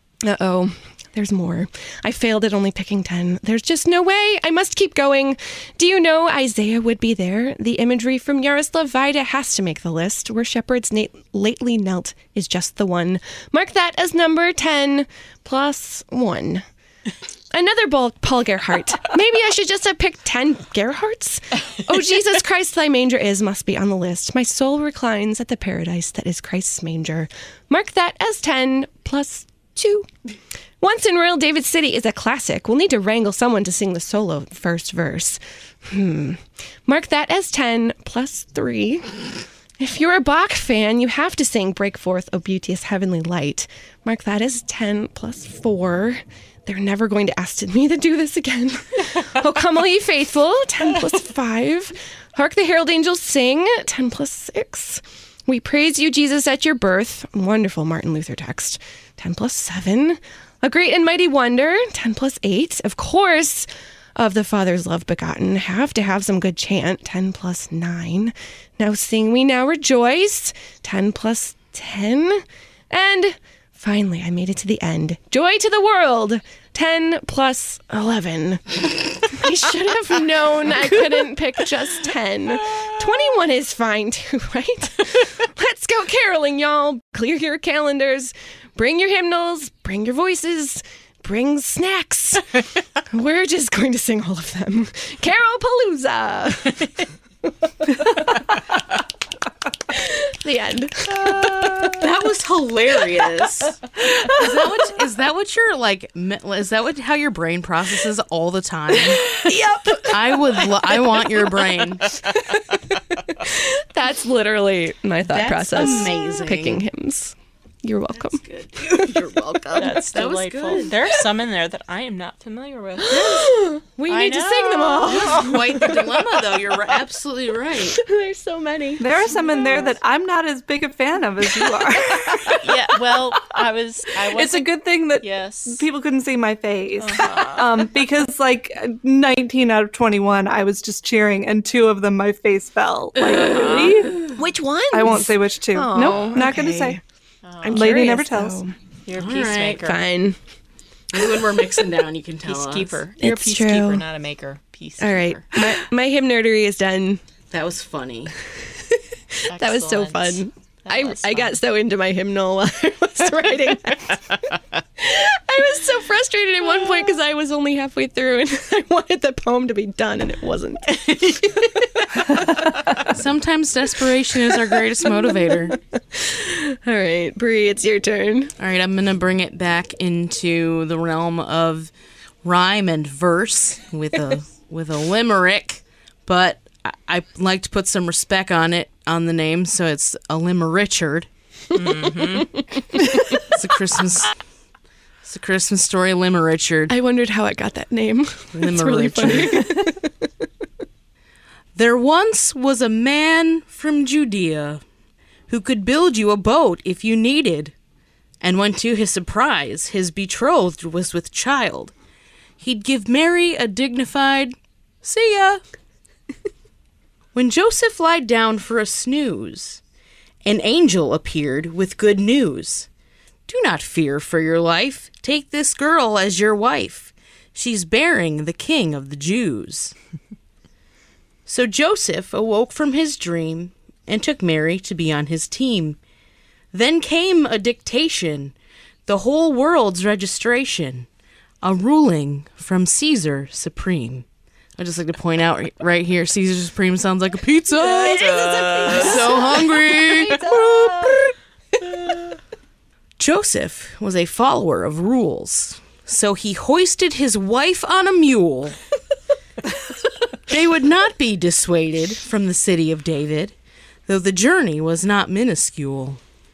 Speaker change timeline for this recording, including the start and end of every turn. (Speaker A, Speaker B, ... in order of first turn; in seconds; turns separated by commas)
Speaker A: 0.2-16.6, Speaker A: 17.5-30.1, Speaker A: 30.8-92.5, Speaker A: 93.1-96.9, Speaker A: 97.9-98.4, Speaker A: 99.9-102.0, Speaker B: 101.1-102.0, Speaker C: 102.0-109.4, Speaker A: 109.4-110.1, Speaker C: 110.0-112.0, Speaker A: 112.3-120.0, Speaker C: 115.3-116.8, Speaker C: 118.1-121.0, Speaker B: 119.8-123.5, Speaker A: 123.0-126.2, Speaker B: 124.1-125.8, Speaker C: 125.1-128.0, Speaker A: 127.9-129.6, Speaker D: 129.0-132.6, Speaker A: 131.6-132.6, Speaker B: 132.6-134.7, Speaker D: 134.3-144.2, Speaker B: 135.2-135.8, Speaker B: 137.0-137.8, Speaker C: 143.2-143.8, Speaker B: 143.4-144.1, Speaker A: 144.3-147.0, Speaker D: 144.9-147.0, Speaker B: 147.4-147.9, Speaker A: 147.6-148.8, Speaker D: 147.7-148.6, Speaker B: 149.1-150.0, Speaker C: 149.2-149.8, Speaker A: 149.8-150.4, Speaker C: 151.1-153.0, Speaker B: 152.4-155.5, Speaker A: 153.2-154.0, Speaker A: 155.0-157.2, Speaker C: 157.5-158.3, Speaker B: 159.5-161.6, Speaker A: 159.5-164.4, Speaker A: 165.0-172.8, Speaker C: 173.0-175.8, Speaker A: 175.1-178.5, Speaker C: 178.6-181.9, Speaker C: 182.4-191.3, Speaker B: 191.7-192.7, Speaker C: 193.4-194.3, Speaker C: 195.2-196.9, Speaker A: 196.9-200.1, Speaker C: 198.5-199.7, Speaker C: 201.8-204.8, Speaker C: 205.5-207.7, Speaker C: 208.4-211.9, Speaker C: 212.6-215.6, Speaker C: 217.3-219.8, Speaker C: 220.4-222.9, Speaker C: 223.5-230.0, Speaker C: 231.5-236.0, Speaker C: 236.7-238.5, Speaker C: 239.1-241.1, Speaker C: 241.6-244.2, Speaker C: 244.8-248.4, Speaker A: 247.8-251.3, Speaker B: 248.0-249.3, Speaker C: 248.9-251.2, Speaker C: 253.2-258.8, Speaker C: 260.5-263.6, Speaker C: 264.1-266.2